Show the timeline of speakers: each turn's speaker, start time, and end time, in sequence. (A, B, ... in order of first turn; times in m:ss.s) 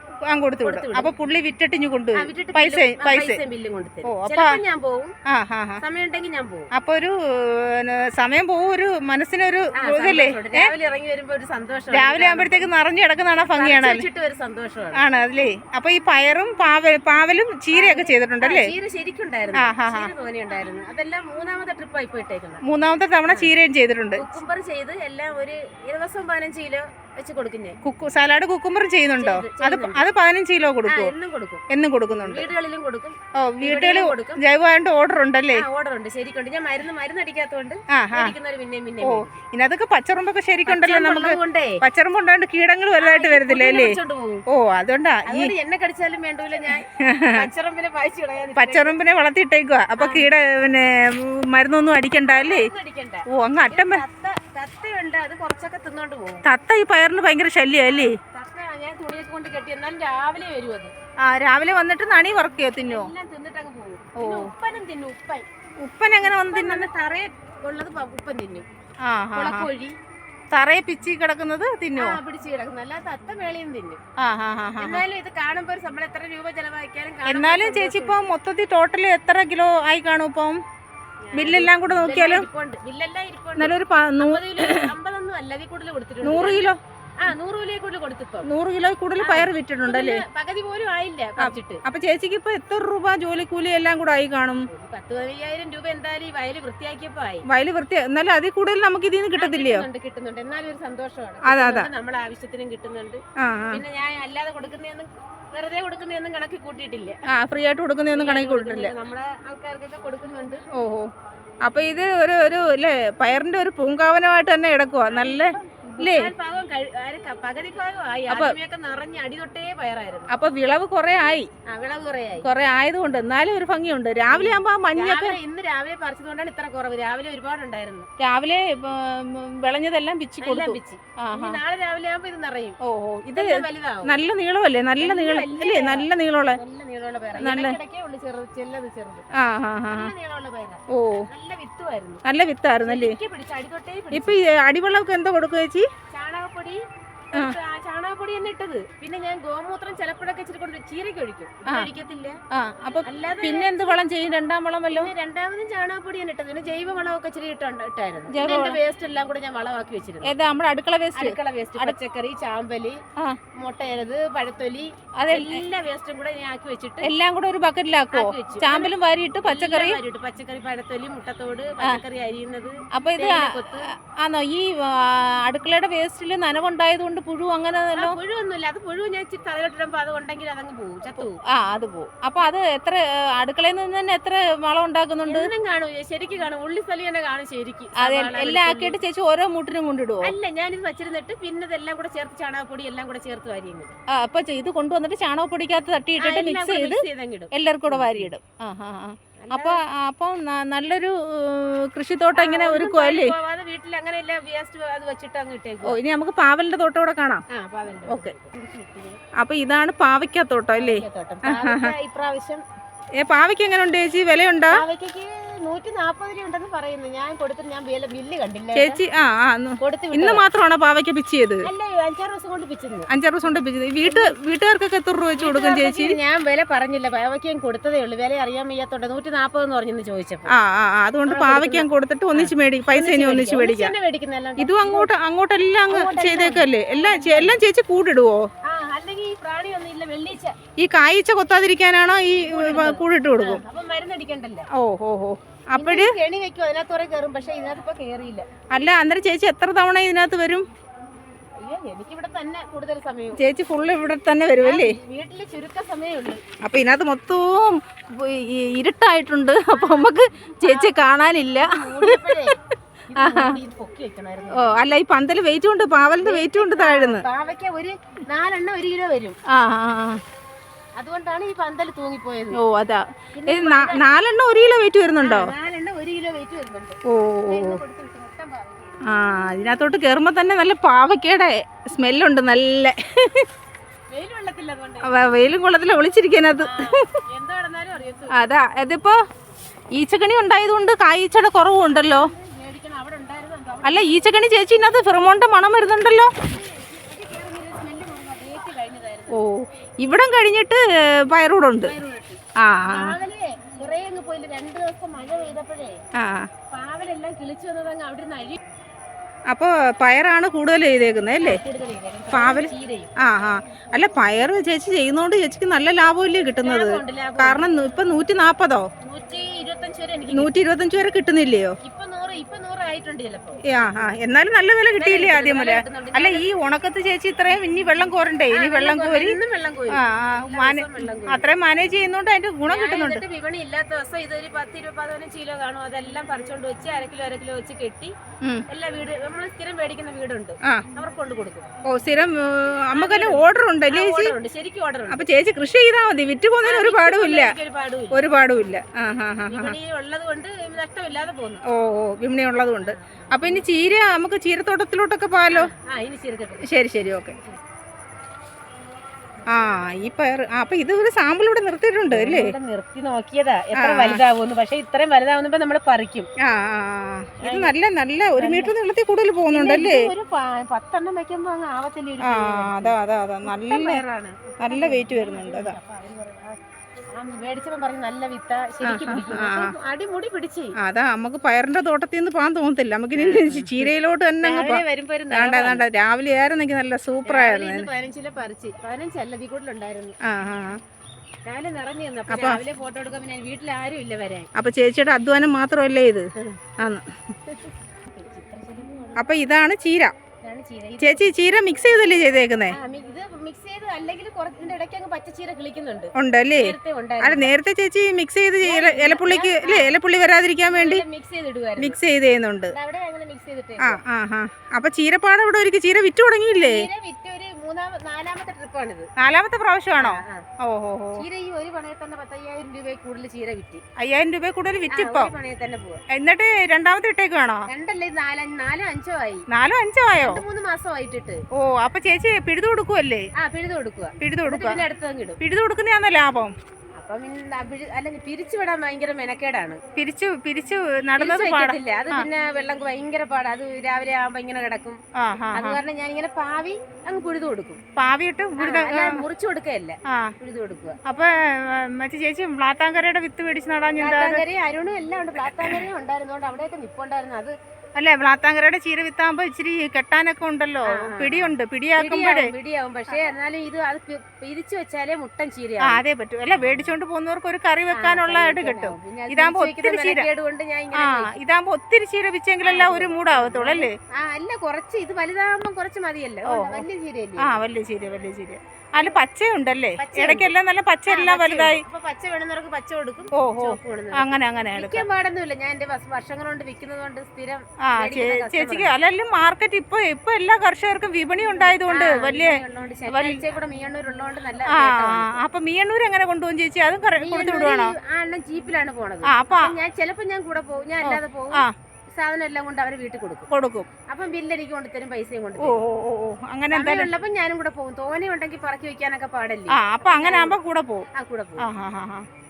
0:00.3-0:03.4 A
0:00.6-0:01.1 B
0:02.1-0:05.1 B
0:04.0-0:04.6 A
0:05.3-0:05.8 A
0:05.8-0:06.7 B
0:06.7-0:10.7 A
0:09.8-0:12.7 B
0:11.9-0:14.0 A
0:13.5-0:15.0 B
0:14.9-0:18.7 A
0:17.7-0:22.6 B
0:19.5-0:20.1 A
0:22.6-0:24.3 A
0:23.2-0:23.5 B
0:24.1-0:27.8 B
0:27.8-0:31.1 A
0:29.2-0:30.1 B
0:30.8-0:34.4 B
0:31.7-0:32.5 A
0:33.4-0:35.6 A
0:35.5-0:39.4 B
0:37.9-0:38.3 A
0:39.0-0:44.0 A
0:40.7-0:41.8 B
0:43.0-0:44.4 B
0:44.5-0:45.5 A
0:45.3-0:48.9 B
0:46.9-0:47.4 A
0:48.6-0:52.7 A
0:50.0-0:50.3 B
0:52.2-0:56.4 B
0:53.3-0:54.0 A
0:56.4-0:58.2 A
0:57.9-1:00.9 B
1:01.2-1:03.1 A
1:02.8-1:05.4 B
1:04.2-1:04.5 A
1:05.8-1:06.9 A
1:06.2-1:08.6 B
1:09.0-1:09.7 A
1:09.3-1:09.9 B
1:10.5-1:12.2 A
1:12.0-1:14.0 B
1:14.2-1:15.0 A
1:14.8-1:18.2 B
1:17.2-1:20.6 A
1:21.2-1:26.7 B
1:21.3-1:22.5 A
1:23.6-1:24.9 A
1:26.2-1:26.8 A
1:27.2-1:28.5 B
1:28.4-1:30.2 A
1:29.2-1:31.8 B
1:31.4-1:34.7 A
1:34.7-1:37.4 B
1:37.5-1:39.8 A
1:39.4-1:47.2 B
1:41.4-1:41.9 A
1:43.4-1:43.8 A
1:47.3-1:48.9 A
1:48.1-1:50.6 B
1:50.7-1:51.1 A
1:51.6-1:56.3 A
1:55.1-2:00.3 B
1:58.3-1:58.5 A
2:00.3-2:01.5 A
2:01.7-2:02.5 B
2:02.4-2:05.4 A
2:04.3-2:08.1 B
2:08.2-2:11.6 A
2:10.4-2:12.8 B
2:12.8-2:16.6 A
2:13.3-2:14.2 B
2:15.0-2:19.3 B
2:17.4-2:17.7 A
2:19.3-2:20.1 A
2:19.9-2:22.2 B
2:20.9-2:21.2 A
2:22.2-2:23.2 A
2:22.8-2:24.4 B
2:24.1-2:25.8 A
2:26.1-2:26.8 B
2:27.3-2:32.4 B
2:32.5-2:35.1 A
2:33.0-2:34.0 B
2:34.9-2:40.3 B
2:38.3-2:38.8 A
2:40.2-2:41.9 A
2:41.1-2:43.0 B
2:43.6-2:47.1 B
2:45.2-2:45.6 A
2:47.0-2:50.0 A
2:48.1-2:53.9 B
2:52.9-2:58.2 A
2:58.0-3:01.4 B
3:01.2-3:05.5 A
3:05.2-3:09.0 B
3:08.0-3:10.3 A
3:10.2-3:14.0 B
3:14.1-3:23.3 A
3:16.2-3:18.3 B
3:19.4-3:19.8 B
3:22.4-3:26.0 B
3:25.8-3:27.4 A
3:27.5-3:29.2 B
3:28.1-3:28.3 A
3:29.4-3:31.9 A
3:30.7-3:32.6 B
3:33.2-3:34.8 A
3:34.7-3:39.0 B
3:38.7-3:41.7 A
3:39.8-3:40.4 B
3:41.6-3:44.3 B
3:43.1-3:46.2 A
3:45.4-3:50.5 B
3:50.5-3:53.9 A
3:51.2-3:55.1 B
3:54.6-3:58.4 A
3:55.9-3:57.6 B
3:58.6-4:00.6 B
4:00.8-4:03.6 A
4:02.3-4:04.7 B
4:04.7-4:06.1 A
4:05.8-4:08.5 B
4:08.7-4:10.7 A
4:11.6-4:13.4 B
4:13.4-4:14.9 A
4:14.6-4:16.4 B
4:16.6-4:22.5 A
4:19.7-4:20.9 B
4:21.6-4:22.6 B
4:23.1-4:24.7 B
4:23.2-4:23.6 A
4:24.5-4:27.2 A
4:26.2-4:29.4 B
4:29.5-4:30.2 A
4:31.0-4:32.6 B
4:32.5-4:35.5 A
4:33.3-4:34.1 B
4:35.2-4:39.4 B
4:37.1-4:37.8 A
4:39.0-4:43.4 A
4:44.1-4:45.1 B
4:45.0-4:46.8 A
4:46.6-4:48.5 B
4:48.3-4:49.2 A
4:49.9-4:52.3 A
4:51.8-4:54.3 B
4:53.8-4:56.3 A
4:56.4-4:59.4 B
4:59.3-5:01.9 A
5:01.8-5:06.0 B
5:02.6-5:03.2 A
5:06.2-5:06.5 A
5:06.7-5:08.6 B
5:09.5-5:11.6 A
5:11.4-5:13.1 B
5:12.3-5:18.9 A
5:16.6-5:17.7 B
5:19.0-5:20.5 B
5:20.3-5:21.7 A
5:21.8-5:24.1 B
5:23.7-5:29.4 A
5:25.0-5:26.5 B
5:28.5-5:31.8 B
5:29.9-5:33.2 A
5:32.7-5:38.1 B
5:38.7-5:41.7 B
5:41.8-5:44.3 A
5:42.9-5:45.3 B
5:45.1-5:47.5 A
5:46.6-5:48.3 B
5:48.1-5:49.7 A
5:49.5-5:51.6 B
5:51.7-5:55.7 A
5:52.8-5:53.6 B
5:55.5-5:57.6 B
5:56.6-5:57.4 A
5:59.5-6:02.5 A
6:02.1-6:06.3 B
6:03.7-6:04.2 A
6:06.4-6:10.1 A
6:07.4-6:07.8 B
6:08.4-6:08.7 B
6:09.5-6:16.6 B
6:12.2-6:14.0 A
6:14.6-6:15.8 A
6:17.2-6:20.8 B
6:18.8-6:19.7 A
6:20.8-6:27.9 A
6:23.2-6:25.8 B
6:27.2-6:30.2 B
6:30.2-6:30.8 A
6:31.4-6:34.5 B
6:32.3-6:32.6 A
6:34.5-6:36.3 A
6:36.8-6:37.0 A
6:37.4-6:39.2 B
6:39.2-6:40.1 A
6:40.4-6:41.4 B
6:41.0-6:42.8 A
6:42.7-6:47.5 B
6:46.1-6:51.0 A
6:48.6-6:50.0 B
6:50.7-6:52.0 B
6:51.8-6:52.7 A
6:52.7-6:54.0 B
6:53.8-6:56.9 A
6:56.6-6:59.1 B
6:59.2-7:01.2 A
7:00.0-7:00.4 B
7:01.1-7:03.8 B
7:04.0-7:05.3 A
7:04.9-7:06.0 B
7:06.1-7:07.7 A
7:07.7-7:09.4 B
7:09.5-7:10.4 A
7:10.2-7:11.4 B
7:11.6-7:13.3 A
7:13.4-7:15.4 B
7:14.2-7:14.8 A
7:15.4-7:16.5 A
7:17.0-7:19.8 B
7:20.0-7:22.3 A
7:21.2-7:25.0 B
7:25.2-7:25.8 A
7:25.5-7:27.8 B
7:28.0-7:29.2 A
7:28.6-7:31.0 B
7:30.1-7:30.3 A
7:31.0-7:34.4 A
7:34.0-7:37.5 B
7:35.5-7:35.8 A
7:38.0-7:42.5 A
7:40.8-7:47.0 B
7:45.8-7:50.3 A
7:47.9-7:51.4 B
7:50.9-7:53.9 A
7:52.6-7:57.6 B
7:56.5-7:56.8 A
7:57.4-8:01.8 A
8:00.0-8:00.5 B
8:01.1-8:08.9 B
8:03.4-8:05.0 A
8:07.8-8:13.4 A
8:11.7-8:15.4 B
8:14.7-8:17.9 A
8:17.2-8:23.5 B
8:19.2-8:19.7 A
8:21.0-8:21.7 A
8:23.5-8:23.9 A
8:24.1-8:25.8 B
8:25.6-8:27.1 A
8:26.7-8:30.6 B
8:29.7-8:31.0 A
8:31.1-8:31.6 B
8:31.6-8:32.2 A